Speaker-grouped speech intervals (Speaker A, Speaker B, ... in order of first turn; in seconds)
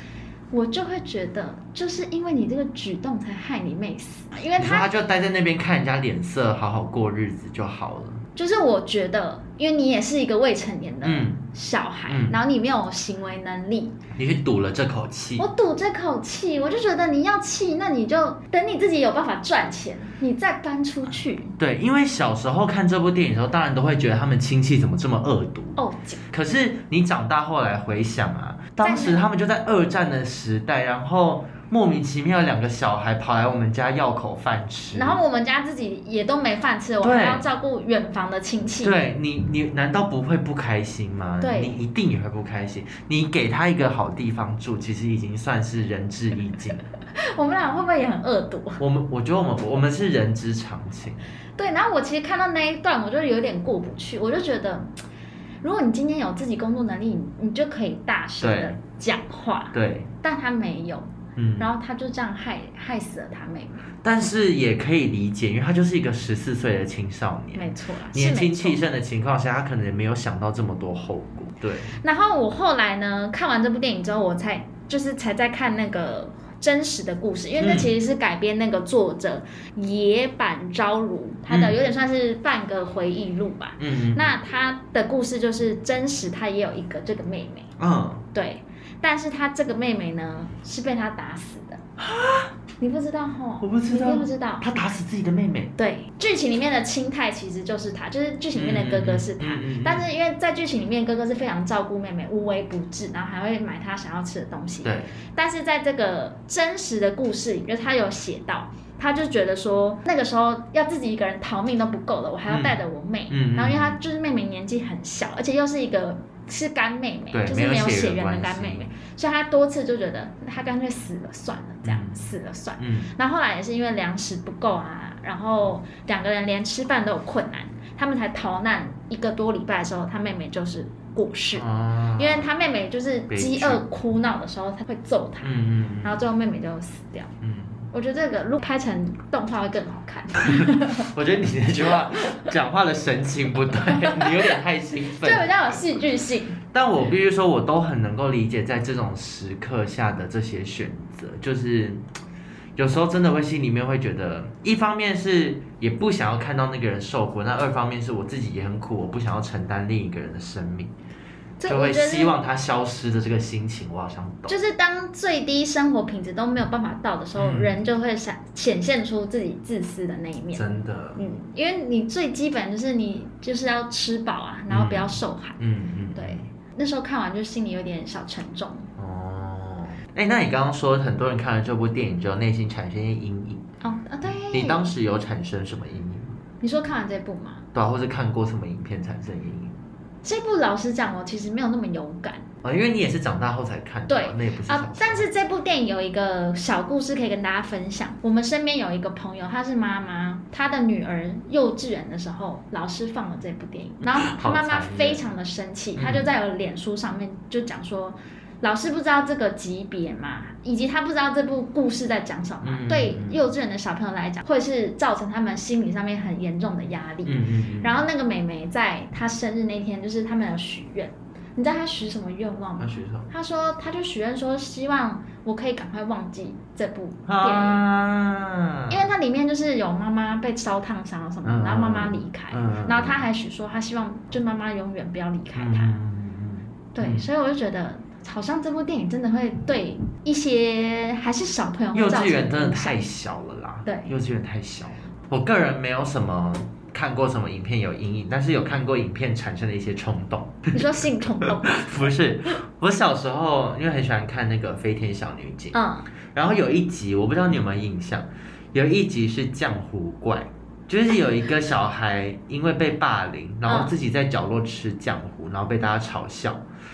Speaker A: 0.5-4.9, 8.3-14.0, 15.4-21.5, 25.8-26.2, 28.8-29.2, 34.9-39.0, 41.4-41.8, 47.1-48.8, 51.6-54.9, 55.6-63.9, 67.5-68.8, 72.0-87.7, 88.3-91.8, 92.8-94.7, 95.8-137.3, 137.9-141.1, 143.9-144.6, 145.1-146.6, 161.6-162.3, 164.5-170.6, 171.2-175.6, 176.1-178.9, 183.8-184.9, 186.6-187.6, 190.2-192.4, 194.1-227.8, 228.9-235.9, 236.9-243.0, 250.7-252.1, 255.7-256.1, 263.6-263.9
Speaker B: 4.6-8.2, 11.0-11.4, 12.1-12.4, 14.1-15.4, 21.6-25.8, 26.3-35.2, 37.0-37.4, 38.8-46.8, 48.8-51.2, 58.4-58.8, 59.7-60.1, 61.4-61.7, 64.0-72.0, 77.6-77.9, 81.5-81.8, 83.8-84.3, 87.8-88.2, 92.0-92.5, 93.6-95.7, 98.5-100.0, 104.8-105.1, 112.5-114.0, 117.3-118.9, 121.8-123.1, 131.5-132.5, 133.3-133.8, 135.4-136.2, 137.4-137.9, 141.0-145.8, 146.7-152.0, 152.8-160.9, 161.7-164.6, 167.3-167.8, 170.5-171.2, 174.7-176.4, 179.0-183.6, 184.2-186.3, 187.7-189.7, 192.6-195.2, 204.2-205.2, 205.9-206.3, 212.6-213.4, 217.2-217.9, 222.8-223.3, 227.2-229.0, 231.4-233.2, 235.5-237.3, 241.9-250.8, 251.4-255.8, 256.3-266.6